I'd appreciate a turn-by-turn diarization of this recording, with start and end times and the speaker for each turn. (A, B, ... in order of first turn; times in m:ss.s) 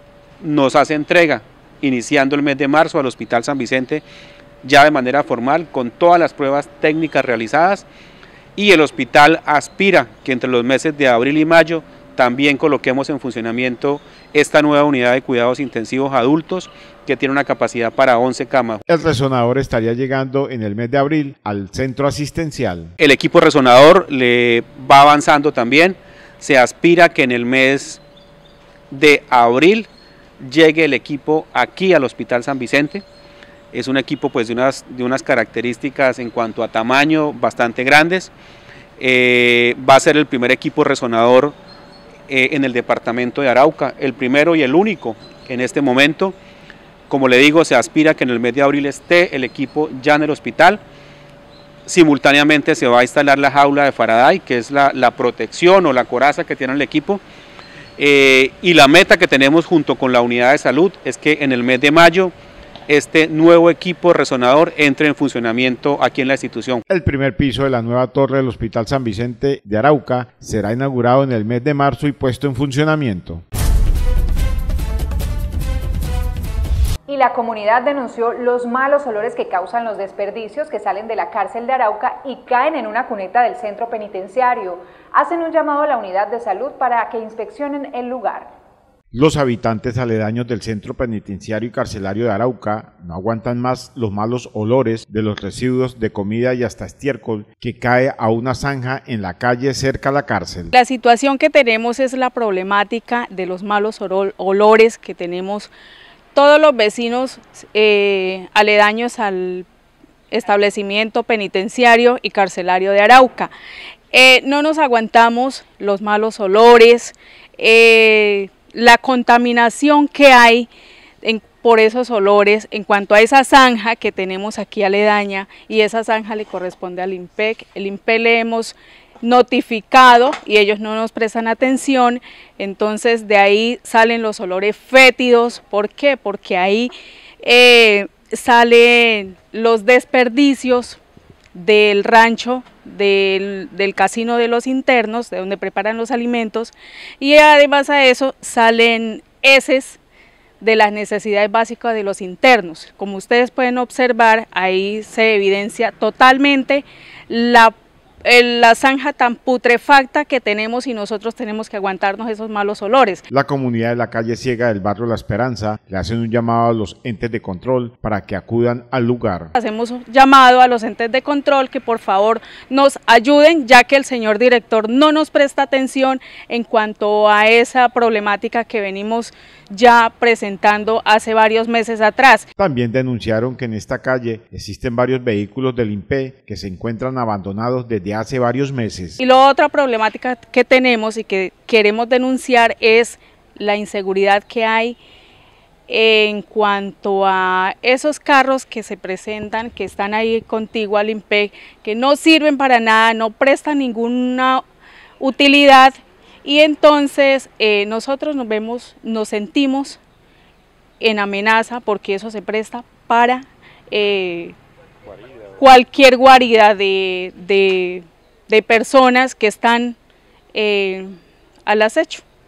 0:00.4-0:04.0 A
0:04.6-0:07.8 A
0:08.6-0:18.8 A
0:18.9-0:22.9 B
0:23.0-0:28.0 A
0:28.9-0:29.9 A
0:30.4-0:33.0 A
0:33.7-0:38.3 A
0:39.0-0:41.6 A
0:42.3-0:46.3 A
0:47.1-0:50.8 A
0:51.8-0:57.2 A
0:58.0-1:02.3 A
1:02.9-1:06.8 A
1:06.9-1:13.4 B
1:17.1-1:28.5 C
1:29.1-1:40.7 B
1:40.7-1:45.7 D
1:46.3-1:49.6 D
1:50.3-1:53.5 D
1:54.1-2:00.7 D
2:01.2-2:16.9 D
2:17.4-2:21.0 D
2:21.5-2:30.0 D
2:30.6-2:43.2 D
2:43.3-2:49.5 B
2:49.6-3:02.5 D
3:02.6-3:09.2 B
3:09.2-3:15.0 D
3:15.9-3:24.6 D
3:25.2-3:30.0 D
3:31.0-3:34.5 D
3:35.6-3:40.0 D
3:40.5-3:41.1 D
3:41.6-3:42.2 D